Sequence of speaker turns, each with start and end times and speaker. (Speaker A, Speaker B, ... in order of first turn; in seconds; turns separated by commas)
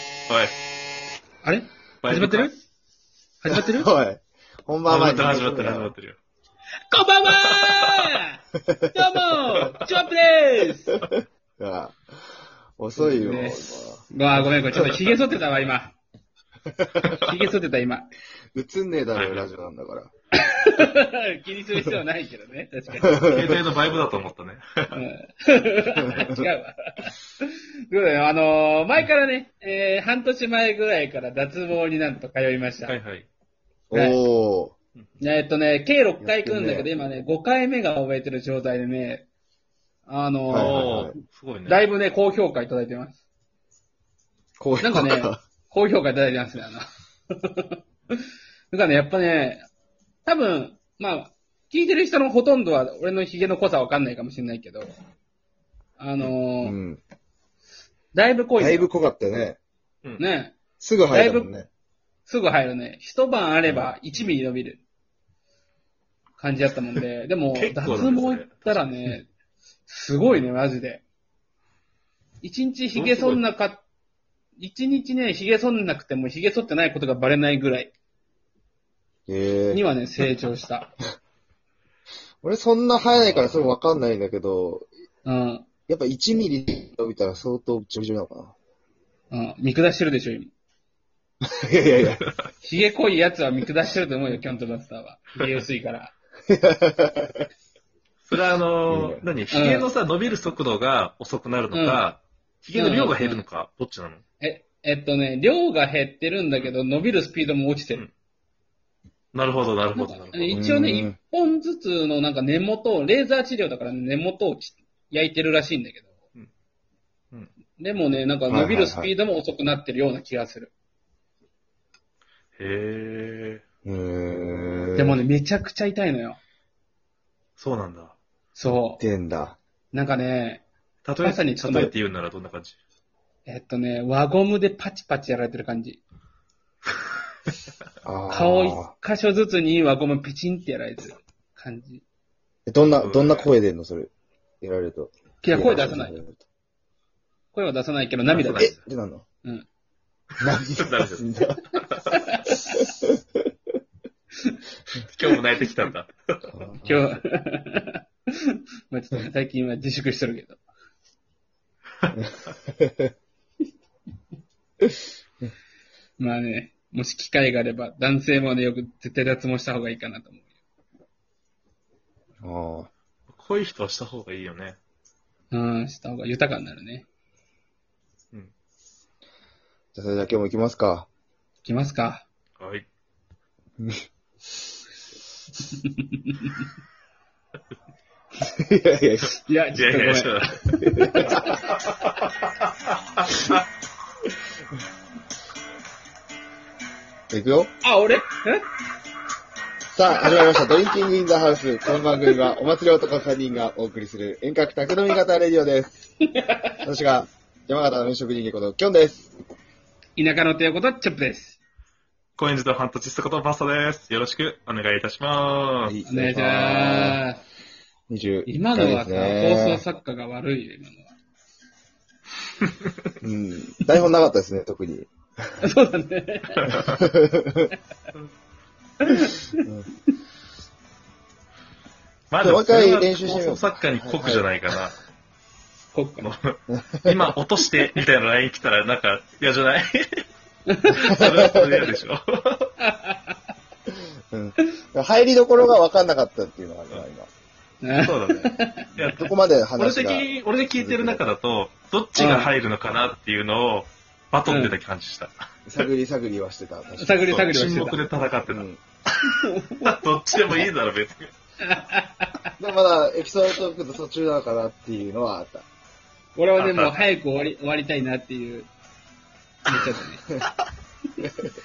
Speaker A: 1.4-2.6, Speaker B: 2.0-2.5, Speaker A: 3.4-3.9, Speaker C: 3.5-5.9, Speaker B: 4.9-6.2, Speaker A: 6.9-8.4, Speaker B: 7.3-8.2, Speaker C: 8.6-8.9, Speaker A: 8.9-11.0, Speaker C: 11.0-12.0, Speaker C: 12.8-14.0, Speaker A: 13.0-15.9, Speaker C: 14.7-15.0, Speaker C: 16.7-17.1, Speaker A: 17.1-18.1, Speaker C: 18.5-20.1, Speaker B: 19.1-19.5, Speaker A: 20.4-23.4, Speaker C: 23.0-23.6, Speaker B: 23.3-24.9, Speaker A: 24.9-33.0, Speaker C: 26.0-26.5, Speaker B: 32.9-33.3, Speaker C: 33.9-34.8, Speaker A: 33.9-34.2, Speaker A: 35.2-39.3, Speaker C: 36.2-36.9, Speaker A: 40.1-40.8, Speaker C: 40.5-41.2, Speaker B: 40.6-41.8, Speaker A: 41.7-43.2, Speaker C: 44.6-45.4, Speaker A: 44.8-47.8, Speaker A: 48.7-49.6, Speaker A: 50.2-54.9, Speaker A: 56.0-56.8, Speaker C: 56.6-57.0, Speaker A: 58.1-58.9, Speaker C: 58.6-59.6, Speaker A: 60.2-61.5, Speaker C: 60.8-61.7, Speaker A: 62.3-64.8, Speaker B: 63.7-64.0, Speaker A: 66.4-69.3, Speaker B: 67.5-69.1, Speaker A: 69.9-71.0, Speaker A: 72.4-73.8, Speaker C: 72.9-73.4, Speaker A: 74.6-77.9, Speaker C: 79.3-79.8, Speaker A: 79.7-80.9, Speaker C: 82.4-84.9, Speaker A: 85.2-85.7, Speaker C: 85.9-88.5, Speaker A: 89.3-90.5, Speaker C: 91.4-92.2, Speaker A: 92.6-96.2, Speaker C: 96.5-97.5, Speaker B: 98.2-104.2, Speaker C: 98.9-99.2, Speaker A: 99.5-99.9, Speaker A: 101.7-102.0, Speaker A: 102.8-103.5, Speaker A: 104.4-108.0, Speaker B: 109.3-110.7, Speaker A: 110.0-116.2, Speaker C: 110.5-111.2, Speaker A: 117.8-120.7, Speaker C: 118.5-119.1, Speaker B: 122.6-123.6, Speaker C: 123.8-125.2, Speaker A: 125.0-126.4, Speaker B: 127.6-128.2, Speaker A: 128.6-129.0, Speaker C: 129.0-129.6, Speaker A: 129.9-130.6, Speaker B: 131.1-132.8, Speaker A: 131.2-131.9, Speaker A: 133.5-136.0, Speaker C: 138.0-138.9, Speaker A: 138.3-142.0, Speaker C: 142.7-146.4, Speaker B: 142.9-143.5, Speaker A: 145.4-146.2, Speaker A: 147.5-148.8, Speaker B: 148.3-148.8, Speaker C: 148.6-149.2, Speaker C: 150.4-151.6, Speaker B: 150.6-152.1, Speaker A: 152.1-152.8, Speaker B: 155.0-156.5, Speaker C: 156.5-157.1, Speaker A: 156.8-160.6, Speaker C: 162.8-163.1, Speaker A: 166.2-170.4, Speaker C: 172.4-172.9, Speaker B: 173.3-174.8, Speaker A: 175.5-177.1, Speaker C: 179.9-181.1, Speaker A: 181.6-182.2, Speaker B: 182.6-182.9, Speaker A: 185.7-186.7, Speaker C: 188.4-189.4, Speaker A: 189.4-191.8, Speaker B: 189.8-190.7, Speaker C: 190.8-191.5, Speaker B: 191.4-192.3, Speaker B: 193.2-193.6, Speaker C: 197.3-197.7, Speaker A: 197.8-198.6, Speaker C: 199.9-205.9, Speaker A: 202.0-202.5, Speaker A: 206.3-206.8, Speaker C: 206.8-209.3, Speaker A: 210.2-211.6, Speaker B: 212.4-216.0, Speaker C: 215.9-217.2, Speaker A: 216.1-217.4, Speaker C: 218.1-219.8, Speaker A: 218.5-221.1, Speaker C: 223.2-225.1, Speaker A: 225.6-226.8, Speaker C: 226.7-227.7, Speaker B: 226.7-227.0, Speaker A: 229.0-229.7, Speaker B: 232.3-235.0, Speaker C: 232.4-234.5, Speaker A: 235.9-236.3, Speaker B: 236.2-240.2, Speaker C: 236.8-237.2, Speaker A: 240.7-241.3, Speaker B: 240.9-242.7, Speaker C: 241.1-241.8, Speaker A: 242.8-243.3, Speaker C: 244.3-247.3, Speaker A: 247.8-248.9, Speaker B: 248.0-255.3, Speaker C: 249.0-251.2, Speaker A: 252.2-252.5, Speaker A: 254.5-254.8, Speaker C: 255.7-257.3, Speaker A: 257.0-258.0, Speaker B: 257.3-261.3, Speaker C: 258.5-258.8, Speaker A: 259.4-259.9, Speaker A: 261.6-262.5, Speaker C: 262.6-265.7, Speaker A: 266.4-268.7, Speaker B: 266.6-267.0, Speaker A: 269.7-270.2